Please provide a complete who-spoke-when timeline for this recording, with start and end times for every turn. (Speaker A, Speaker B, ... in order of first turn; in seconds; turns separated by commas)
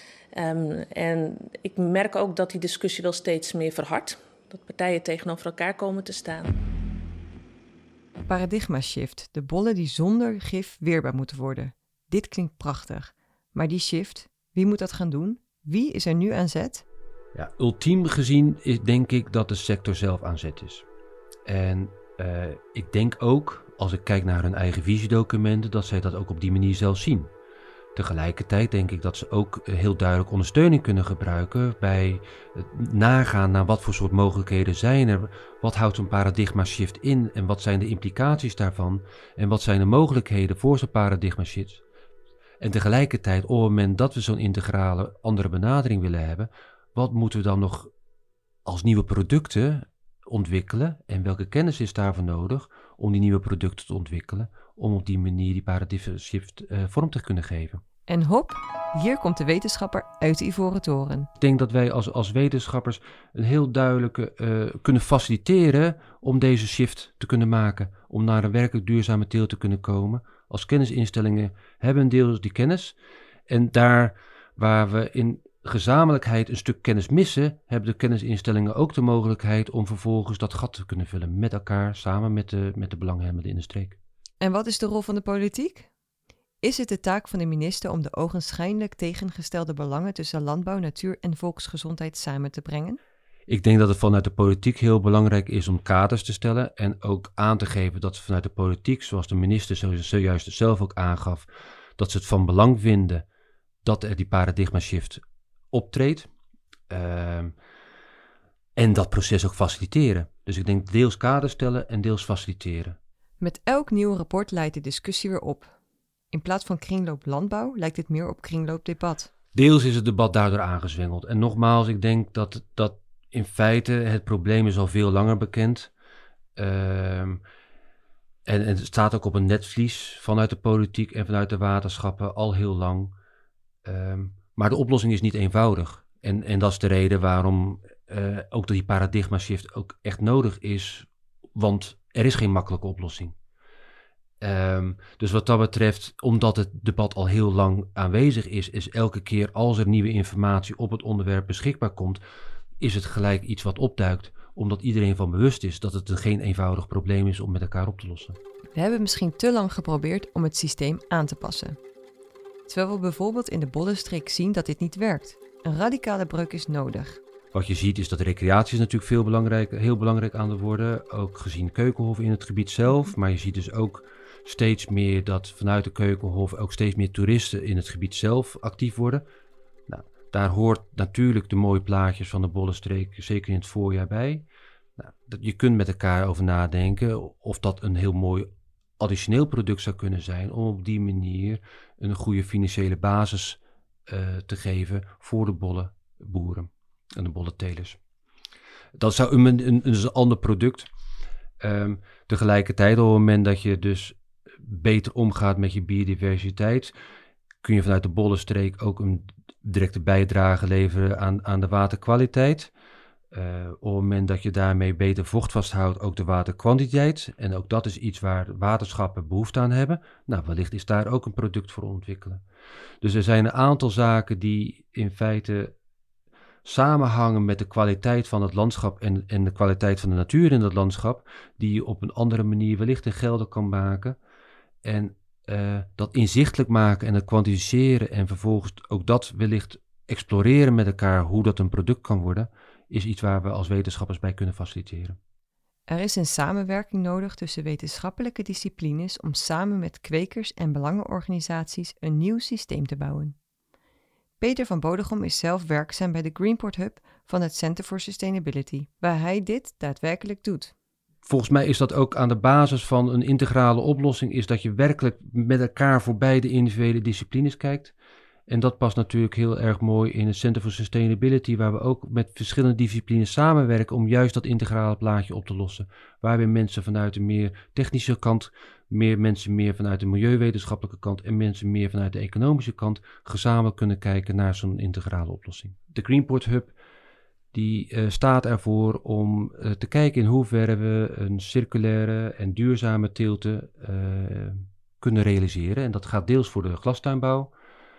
Speaker A: 0.3-6.5, Speaker B: 8.2-16.8, Speaker C: 17.3-20.9, Speaker C: 21.4-27.3, Speaker C: 27.9-41.8, Speaker C: 42.6-47.9, Speaker C: 48.6-57.8, Speaker B: 58.1-61.3, Speaker C: 61.4-73.0, Speaker C: 73.5-84.0, Speaker B: 84.4-85.9, Speaker B: 86.6-93.0, Speaker C: 93.5-103.2, Speaker C: 103.8-105.2, Speaker C: 105.7-106.3, Speaker C: 106.9-107.5, Speaker C: 108.8-113.0, Speaker B: 113.4-115.7, Speaker B: 116.3-119.3, Speaker C: 119.5-125.9, Speaker C: 126.6-127.4, Speaker C: 128.5-133.1, Speaker C: 133.8-143.3, Speaker C: 144.4-152.2, Speaker C: 152.8-158.4, Speaker B: 158.7-161.8, Speaker B: 162.7-167.2, Speaker C: 167.5-179.2, Speaker C: 179.9-184.5, Speaker C: 185.0-188.5, Speaker C: 189.0-198.0, Speaker C: 199.0-200.9, Speaker C: 201.6-206.9, Speaker C: 207.6-212.7, Speaker C: 213.3-222.4, Speaker C: 223.0-225.7, Speaker C: 226.6-234.2, Speaker C: 234.8-245.2, Speaker B: 245.9-253.3, Speaker B: 254.4-260.7, Speaker C: 261.2-267.9, Speaker C: 268.5-286.7, Speaker C: 287.5-297.5